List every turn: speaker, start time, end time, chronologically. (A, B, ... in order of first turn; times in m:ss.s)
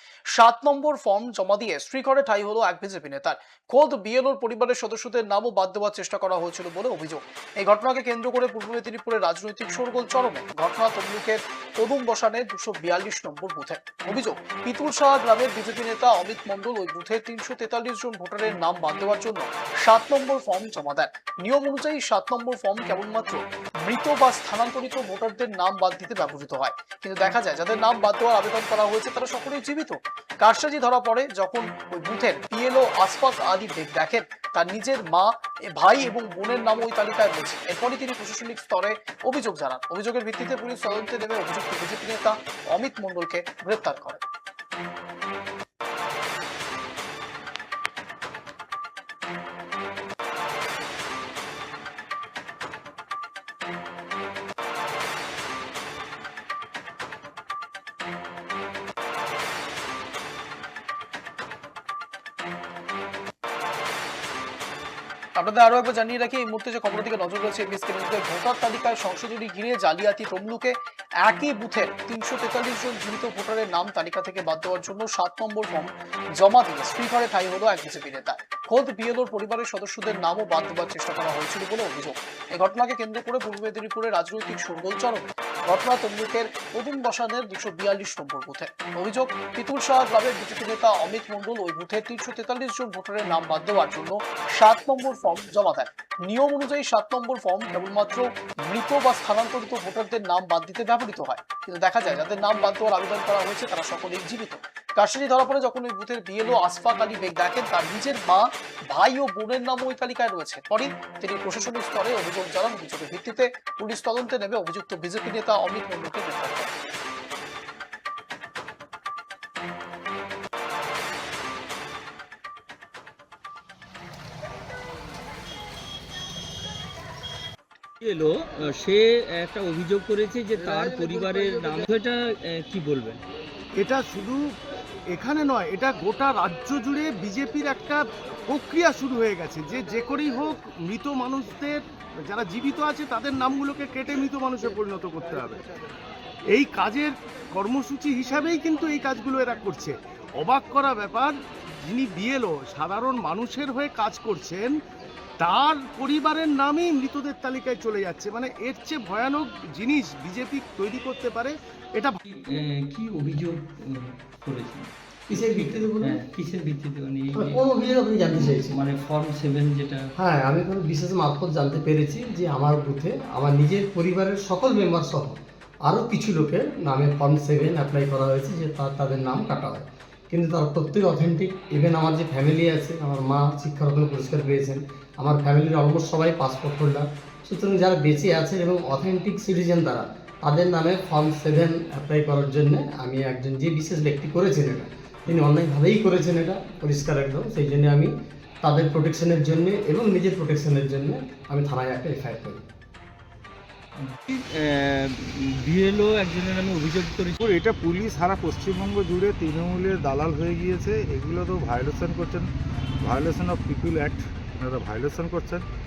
0:00.3-0:44.2 A
1:05.4-1:56.7 A
2:08.0-2:13.2 B
2:13.8-2:14.4 C
2:15.1-2:25.6 C
2:26.5-2:34.7 C
2:35.4-2:42.2 C
2:42.3-2:47.6 B
2:45.3-2:46.2 D
2:47.3-2:48.8 D
2:48.3-2:50.1 B
2:50.2-3:22.6 D
3:24.0-3:27.4 B
3:27.4-3:32.5 E
3:33.0-3:35.6 E